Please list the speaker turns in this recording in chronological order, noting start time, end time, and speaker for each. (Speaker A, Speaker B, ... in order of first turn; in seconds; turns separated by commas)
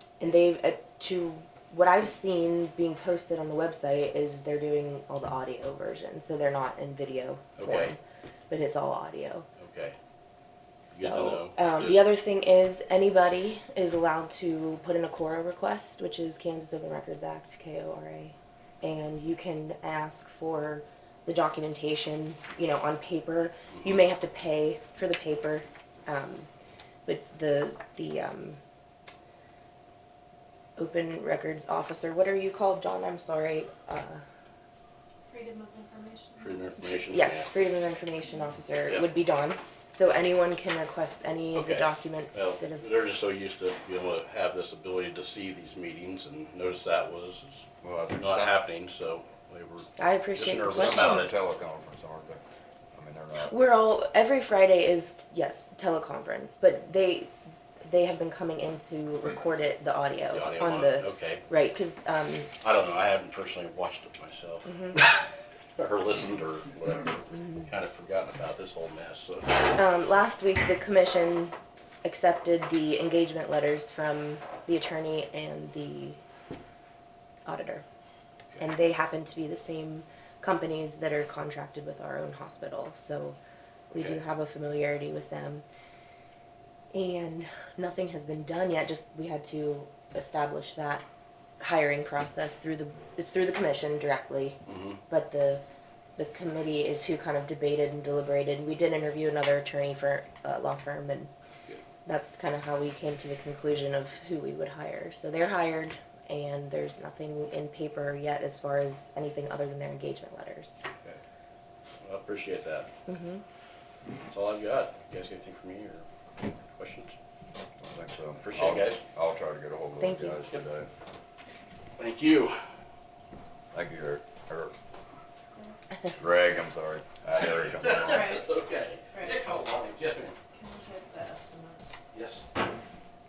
Speaker A: 0.2-8.0, Speaker B: 7.6-7.9, Speaker A: 8.5-9.5, Speaker B: 9.6-9.9, Speaker A: 10.8-26.5, Speaker B: 10.9-12.1, Speaker A: 27.1-28.6, Speaker A: 30.8-34.2, Speaker C: 35.3-36.6, Speaker B: 36.4-37.5, Speaker A: 37.0-42.9, Speaker B: 41.5-51.4, Speaker D: 47.8-48.5, Speaker A: 50.0-51.3, Speaker D: 50.6-52.4, Speaker D: 52.9-53.5, Speaker A: 53.4-57.3, Speaker A: 57.8-62.5, Speaker B: 60.3-61.4, Speaker B: 62.6-69.6, Speaker A: 64.7-65.0, Speaker A: 69.7-76.2, Speaker A: 77.4-77.8, Speaker A: 78.6-83.4, Speaker A: 83.9-85.6, Speaker A: 86.9-91.0, Speaker A: 91.6-95.6, Speaker B: 94.7-95.0, Speaker A: 96.2-101.3, Speaker A: 102.0-110.8, Speaker B: 112.0-112.9, Speaker A: 113.1-113.4, Speaker B: 114.3-117.2, Speaker D: 117.8-120.9, Speaker B: 118.4-119.0, Speaker A: 120.0-120.4, Speaker B: 122.0-122.6, Speaker D: 123.7-124.7, Speaker C: 125.5-125.8, Speaker D: 126.2-128.3, Speaker B: 127.4-130.4, Speaker C: 128.1-128.5, Speaker C: 129.1-129.4, Speaker C: 130.5-131.8, Speaker B: 132.1-132.5